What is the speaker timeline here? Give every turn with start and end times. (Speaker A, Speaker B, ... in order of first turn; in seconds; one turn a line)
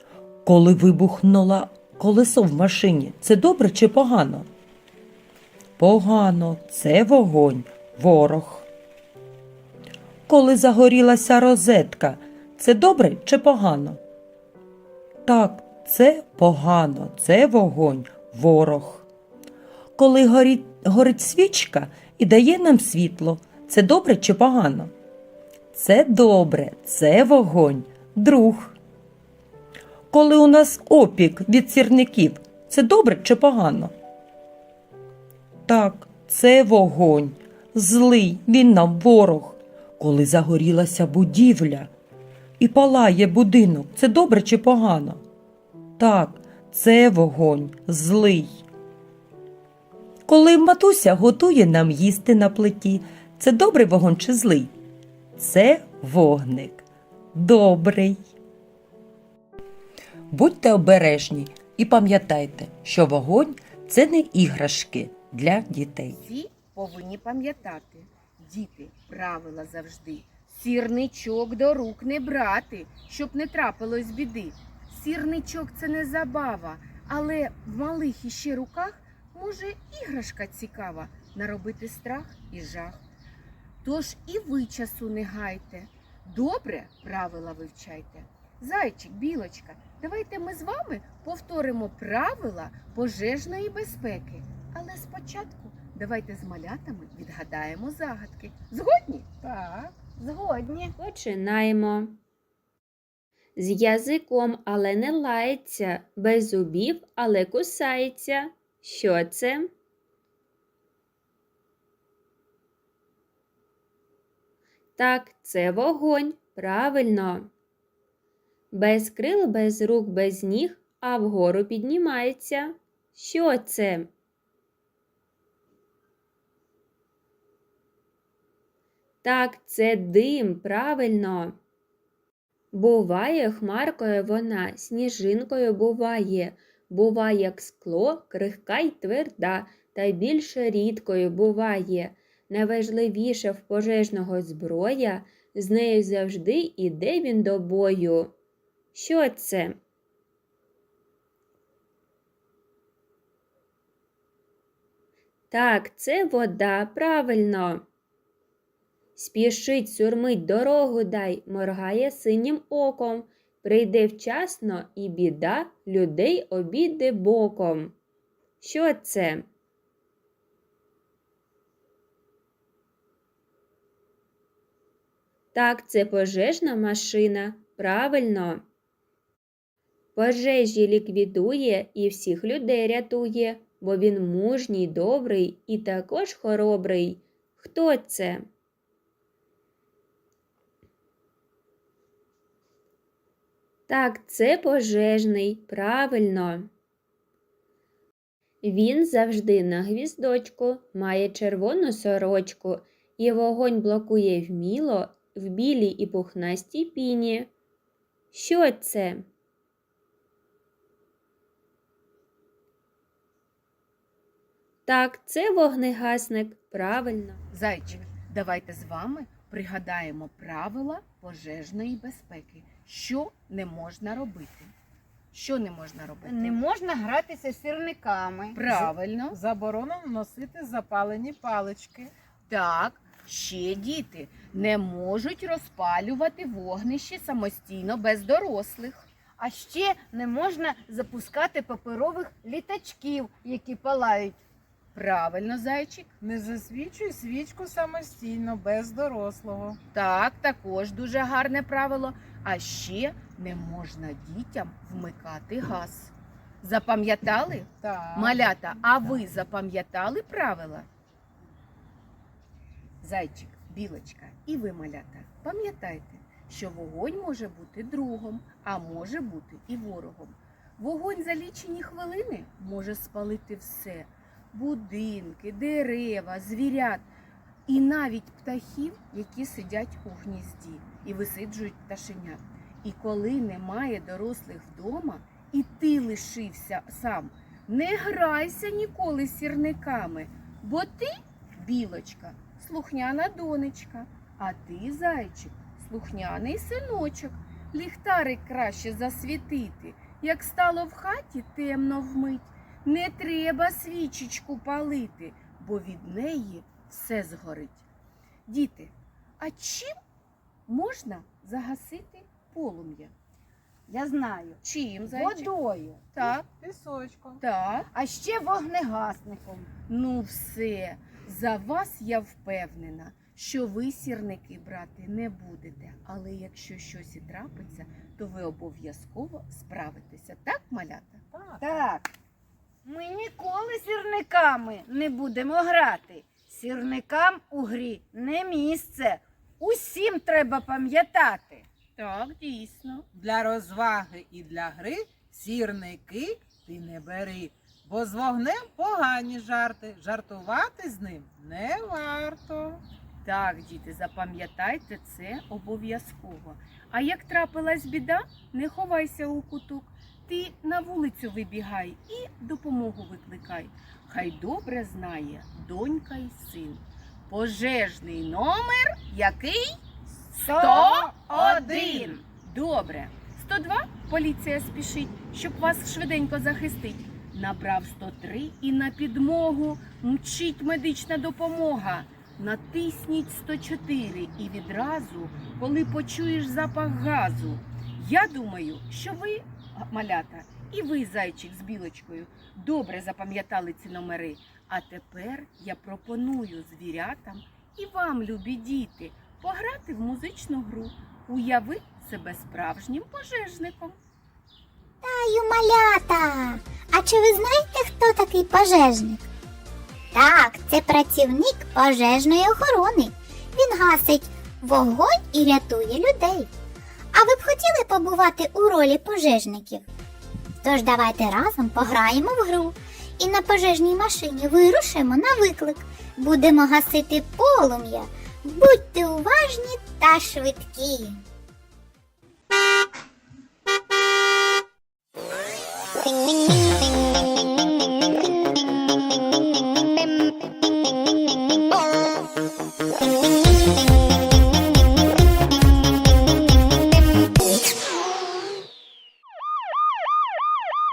Speaker A: 0.5-4.5
Speaker A: 5.8-8.7
Speaker A: 10.3-14.0
Speaker A: 15.3-19.1
Speaker A: 20.0-24.9
Speaker A: 25.7-28.8
Speaker A: 30.1-33.9
Speaker A: 35.7-41.9
Speaker A: 42.6-45.2
Speaker A: 46.0-48.6
Speaker A: 50.3-54.7
Speaker A: 55.4-58.2
Speaker A: 60.3-66.2
Speaker B: 66.1-83.0
Speaker B: 83.8-99.3
Speaker C: 99.4-99.9
Speaker D: 100.1-100.9
Speaker E: 101.0-102.2
Speaker E: 103.6-109.7
Speaker E: 115.0-117.5
Speaker E: 118.7-124.1
Speaker E: 129.2-131.6
Speaker E: 132.7-148.3
Speaker E: 148.9-149.8
Speaker E: 155.5-157.8
Speaker E: 159.2-167.9
Speaker E: 168.6-169.5
Speaker E: 175.5-178.6
Speaker E: 180.2-188.5
Speaker E: 193.9-196.7
Speaker E: 198.6-207.5
Speaker E: 208.3-209.3
Speaker E: 214.9-217.4
Speaker B: 217.5-224.7
Speaker B: 225.3-226.6
Speaker D: 226.2-228.7
Speaker B: 228.6-229.4
Speaker C: 229.3-232.1
Speaker B: 232.5-239.1
Speaker D: 239.4-244.4
Speaker B: 244.9-246.1
Speaker C: 246.2-249.8
Speaker B: 249.9-260.9
Speaker C: 257.8-259.2
Speaker B: 263.0-277.1
Speaker B: 277.7-307.8
Speaker B: 308.5-309.9
Speaker B: 310.7-313.1
Speaker D: 313.9-316.1
Speaker B: 314.6-315.5
Speaker B: 316.1-316.5
Speaker C: 316.2-317.4
Speaker B: 317.4-317.9
Speaker D: 317.9-319.7
Speaker B: 319.9-331.2
Speaker C: 331.3-331.6
Speaker D: 331.6-332.1
Speaker D: 332.9-341.6
Speaker B: 342.0-343.1
Speaker C: 343.1-352.8
Speaker B: 353.2-369.7
Speaker D: 370.3-372.2
Speaker B: 370.6-404.0
Speaker C: 371.2-372.1
Speaker F: 405.0-409.3
Speaker F: 410.1-416.5
Speaker F: 417.1-419.8
Speaker F: 420.6-431.2